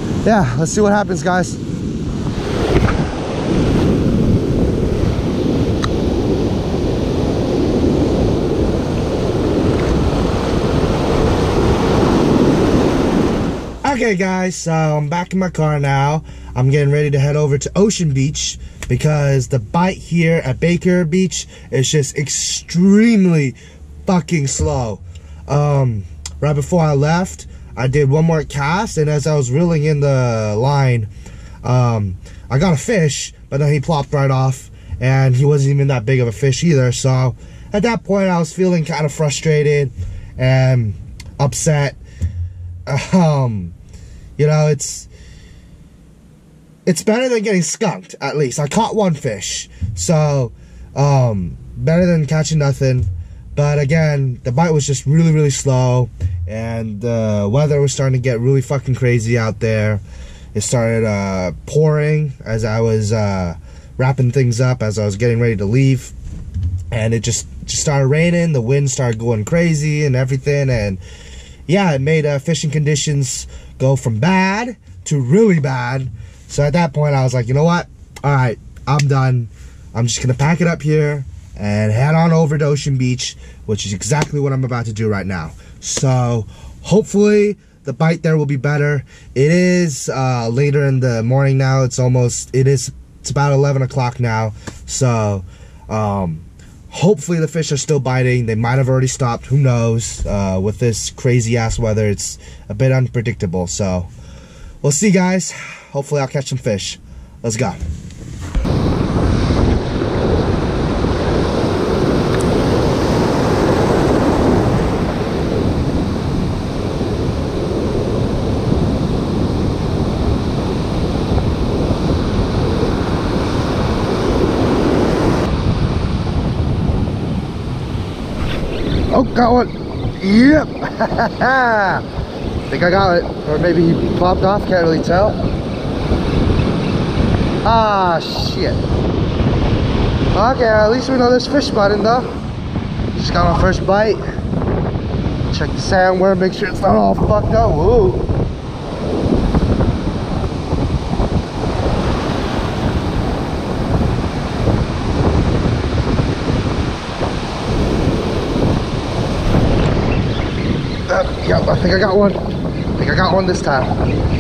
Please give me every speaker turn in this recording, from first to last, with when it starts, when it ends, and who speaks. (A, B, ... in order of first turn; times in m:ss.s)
0:00.2-0:01.6 A
0:13.8-0:31.1 A
0:31.6-0:42.0 A
0:42.9-0:43.8 A
0:44.4-0:45.1 A
0:46.9-1:00.0 A
1:00.5-1:06.1 A
1:06.9-1:11.0 A
1:11.7-1:44.1 A
1:44.8-1:47.8 A
2:09.1-2:12.0 A
2:12.7-2:15.4 A
2:17.6-2:18.8 A
2:20.3-2:22.3 A
2:23.1-2:24.2 A
2:25.5-2:28.2 A
2:41.1-2:42.4 A
2:43.0-2:44.0 A